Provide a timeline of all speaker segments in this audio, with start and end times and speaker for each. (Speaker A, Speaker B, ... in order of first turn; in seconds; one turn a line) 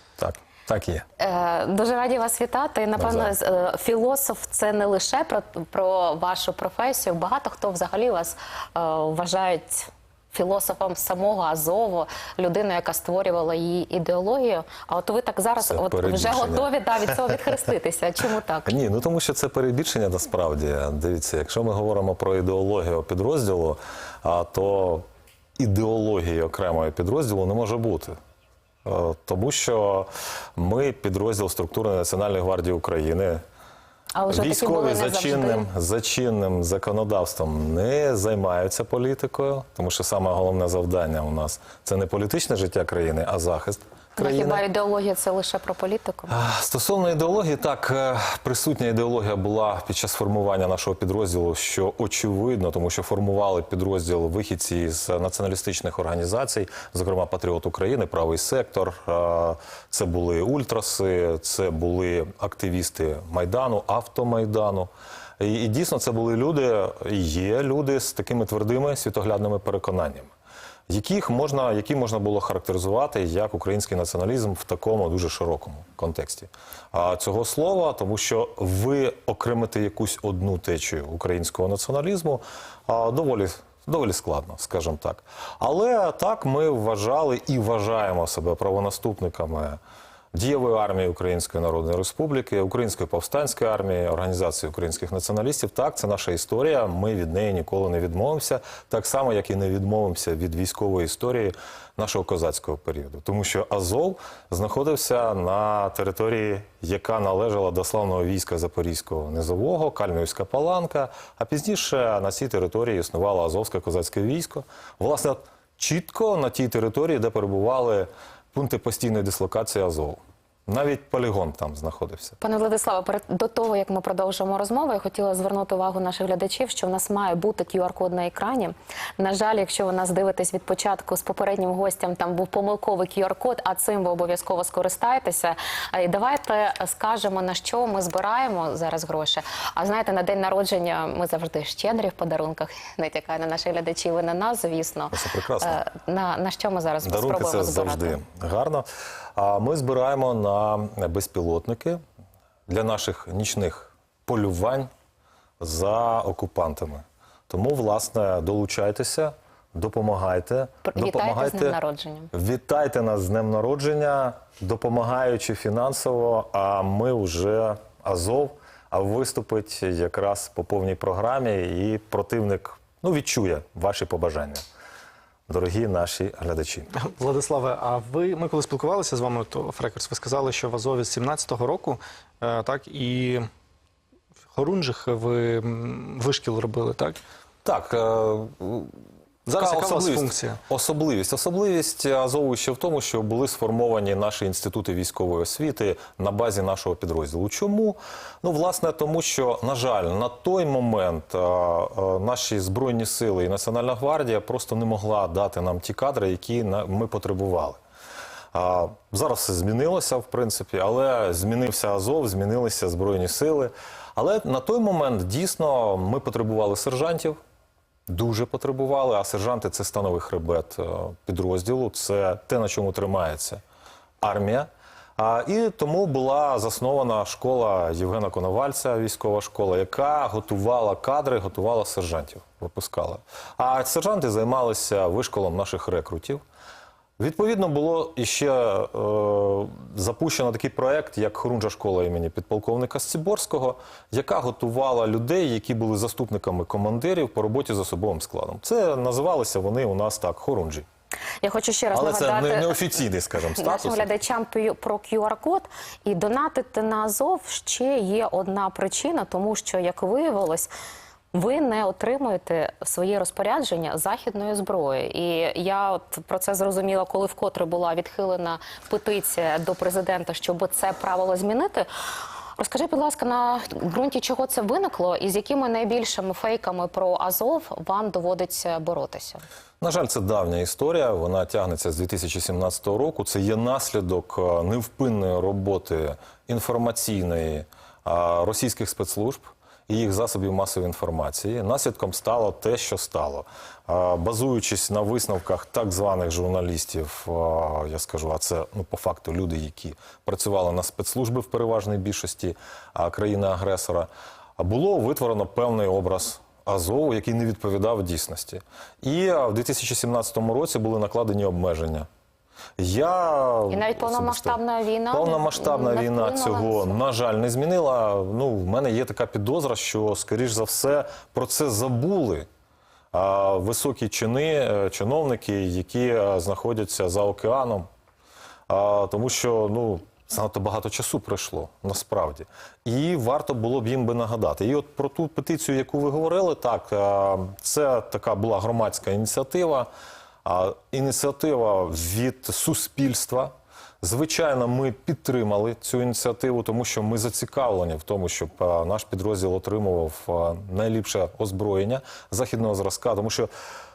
Speaker A: 0.2-1.1
Speaker B: 1.2-18.7
Speaker A: 3.0-3.3
Speaker A: 15.6-17.4
Speaker A: 18.7-25.1
Speaker A: 25.6-28.2
Speaker A: 28.9-33.4
Speaker B: 34.1-35.7
Speaker A: 34.3-44.6
Speaker B: 44.2-46.4
Speaker A: 46.3-70.3
Speaker A: 70.9-89.8
Speaker A: 90.3-122.4
Speaker B: 122.4-148.2
Speaker A: 145.1-145.8
Speaker A: 147.0-152.0
Speaker A: 152.7-154.9
Speaker A: 155.6-161.8
Speaker B: 160.9-162.3
Speaker A: 162.3-174.6
Speaker A: 175.5-176.9
Speaker C: 176.9-183.5
Speaker C: 184.5-187.2
Speaker A: 187.6-188.9
Speaker C: 189.5-190.6
Speaker A: 189.6-207.8
Speaker A: 208.5-217.4
Speaker A: 218.1-223.6
Speaker A: 224.2-236.4
Speaker A: 237.2-250.9
Speaker B: 251.4-253.0
Speaker A: 251.9-254.1
Speaker B: 253.6-260.7
Speaker B: 261.3-271.9
Speaker B: 272.6-279.4
Speaker A: 279.8-312.1
Speaker A: 312.8-314.6
Speaker B: 313.7-317.0
Speaker A: 315.1-322.5
Speaker A: 323.1-327.9
Speaker A: 328.7-339.9
Speaker A: 340.4-353.5